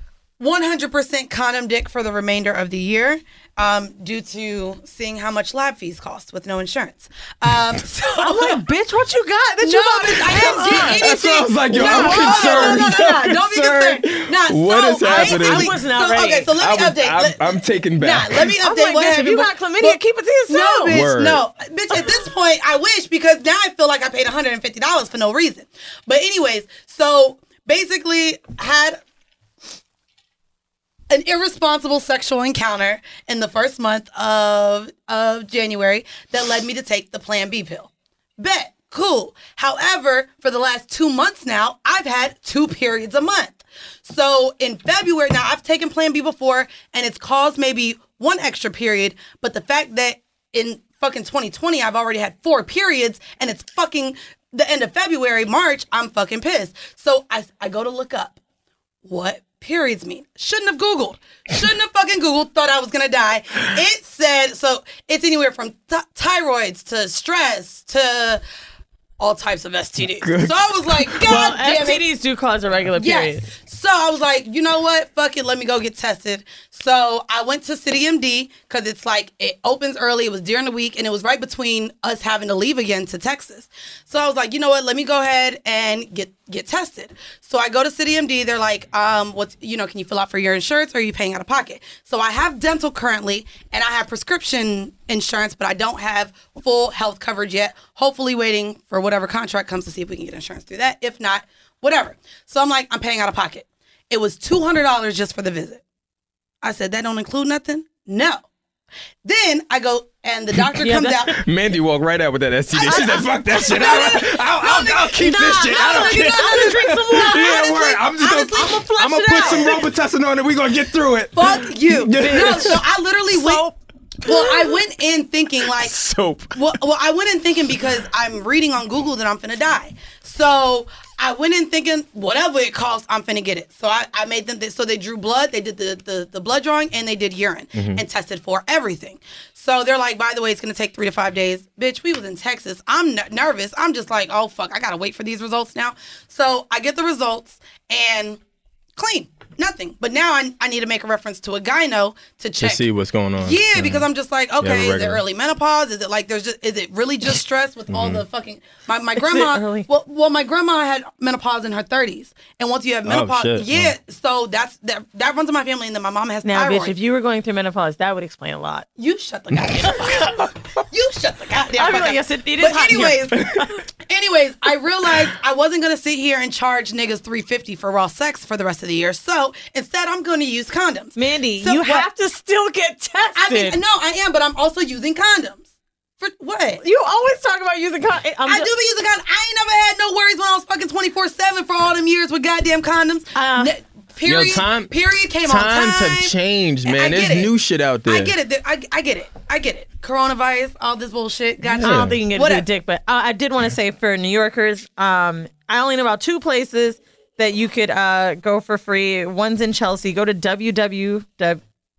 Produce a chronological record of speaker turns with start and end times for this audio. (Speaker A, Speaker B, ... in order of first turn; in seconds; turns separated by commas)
Speaker A: 0.4-8.6, Speaker B: 8.2-11.2, Speaker A: 9.6-29.0, Speaker C: 10.3-15.8, Speaker B: 11.7-13.0, Speaker B: 15.0-16.5, Speaker C: 16.6-18.6, Speaker B: 18.6-21.0, Speaker C: 20.9-21.4, Speaker B: 21.9-22.2, Speaker A: 31.1-58.4, Speaker A: 59.0-68.4, Speaker A: 69.2-72.0, Speaker C: 70.2-71.3, Speaker B: 71.2-73.5, Speaker A: 72.9-105.8, Speaker A: 106.6-108.4, Speaker A: 109.2-111.4, Speaker B: 110.8-111.4, Speaker C: 111.4-122.8, Speaker B: 112.8-114.3, Speaker A: 112.9-119.8, Speaker B: 115.2-117.9, Speaker B: 118.5-119.8, Speaker A: 121.3-123.6, Speaker B: 122.2-123.8, Speaker A: 124.2-126.0, Speaker C: 125.7-126.8, Speaker A: 126.5-148.4, Speaker C: 137.8-138.0, Speaker A: 148.9-152.9, Speaker C: 152.6-154.1, Speaker A: 153.4-166.9, Speaker C: 154.6-155.2, Speaker C: 157.9-158.2, Speaker B: 159.2-159.9, Speaker C: 163.1-163.9, Speaker B: 166.4-168.9, Speaker A: 169.0-173.5, Speaker B: 171.8-173.8, Speaker A: 174.1-182.1, Speaker B: 181.1-183.8, Speaker A: 183.3-185.6, Speaker A: 186.2-186.8, Speaker B: 186.8-188.7, Speaker A: 188.5-196.3, Speaker B: 193.3-193.7, Speaker C: 194.2-194.9, Speaker C: 195.4-198.4, Speaker A: 196.8-197.5, Speaker A: 198.1-202.7, Speaker C: 201.7-202.2, Speaker B: 201.8-211.6